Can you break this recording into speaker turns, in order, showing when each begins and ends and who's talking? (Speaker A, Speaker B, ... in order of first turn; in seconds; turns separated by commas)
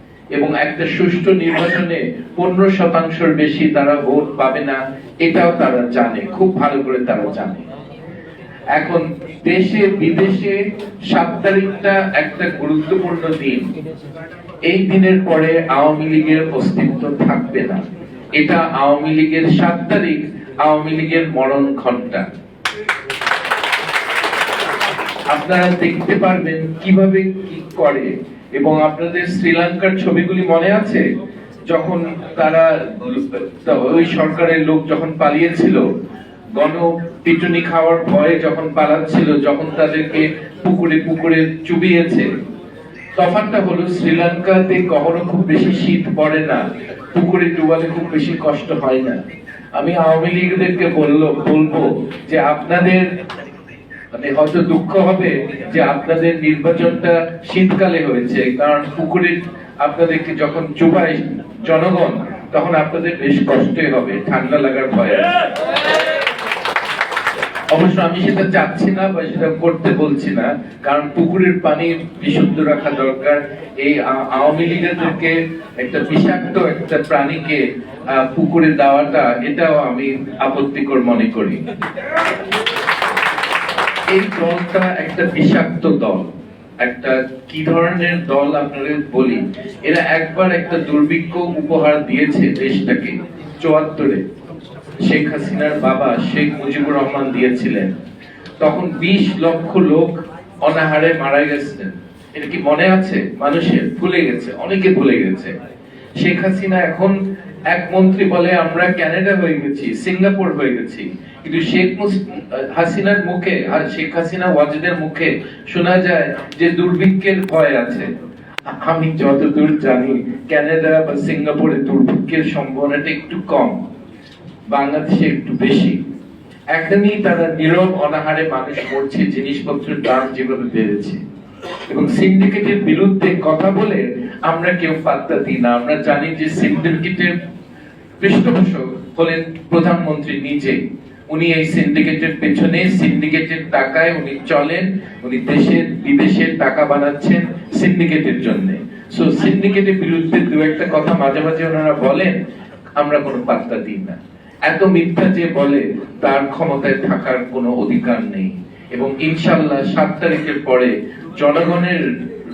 Speaker A: 0.3-7.7, Speaker A: 8.8-10.6, Speaker A: 11.1-13.7, Speaker A: 14.7-17.8, Speaker A: 18.4-22.3, Speaker A: 25.3-31.1, Speaker A: 31.7-35.8, Speaker A: 36.6-42.3, Speaker A: 43.2-46.6, Speaker A: 47.1-49.2, Speaker A: 49.8-53.1, Speaker A: 54.1-65.4, Speaker A: 67.7-81.6, Speaker A: 84.1-94.2, Speaker A: 95.1-97.9, Speaker A: 98.6-105.5, Speaker A: 106.2-107.2, Speaker A: 107.7-118.1, Speaker A: 118.8-123.8, Speaker A: 124.7-126.0, Speaker A: 126.7-131.2, Speaker A: 131.9-137.4, Speaker A: 138.2-152.4, Speaker A: 153.0-162.1